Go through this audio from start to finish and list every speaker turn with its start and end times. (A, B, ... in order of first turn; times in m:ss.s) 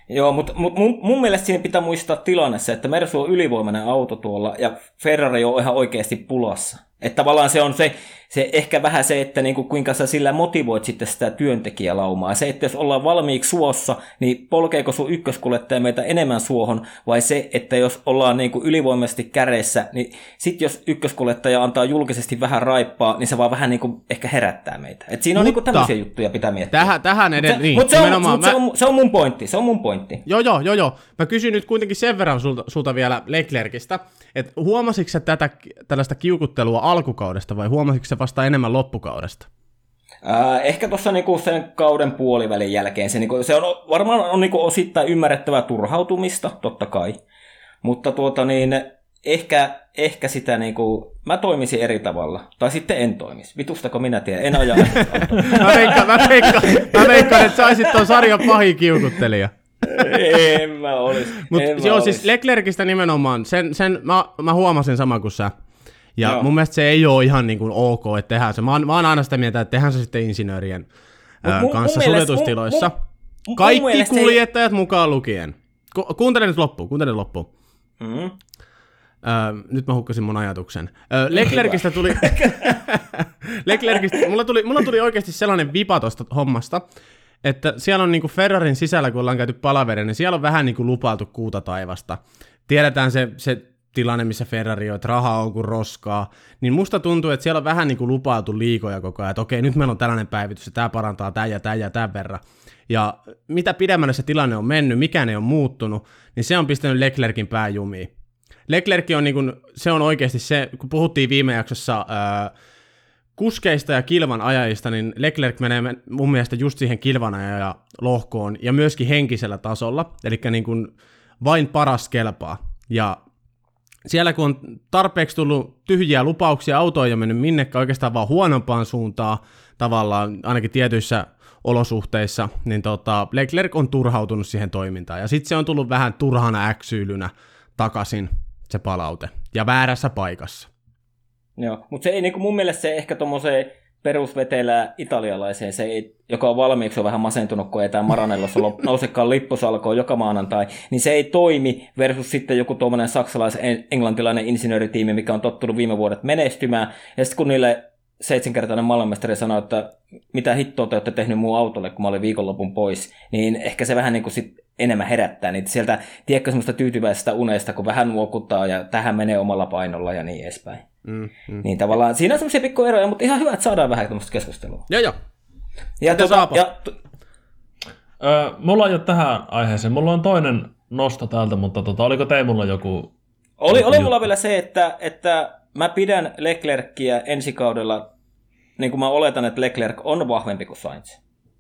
0:00.1-0:30.2 A
0:25.4-0:25.9 B
0:26.7-0:28.6 B
0:30.2-0:39.5 B
0:40.2-0:47.2 A
0:47.8-0:58.5 A
0:54.9-1:00.2 B
0:55.4-0:55.7 C
0:59.9-1:02.2 A
1:01.4-1:05.5 B
1:06.2-1:10.9 B
1:11.4-1:12.9 B
1:11.4-1:12.9 A
1:13.5-1:14.4 A
1:13.6-1:17.5 B
1:18.0-1:18.3 A
1:19.2-1:26.8 B
1:21.3-1:22.8 A
1:27.4-1:48.1 B
1:48.7-1:52.5 B
1:53.4-2:03.2 B
2:04.0-2:20.7 B
2:21.6-2:50.8 A
2:51.0-2:51.6 B
2:51.6-2:54.9 A
2:54.9-2:55.1 B
2:56.0-2:56.9 A
2:56.1-2:56.6 B
2:58.2-3:03.1 C
3:03.6-3:08.1 A
3:03.7-3:04.3 C
3:08.8-3:11.2 A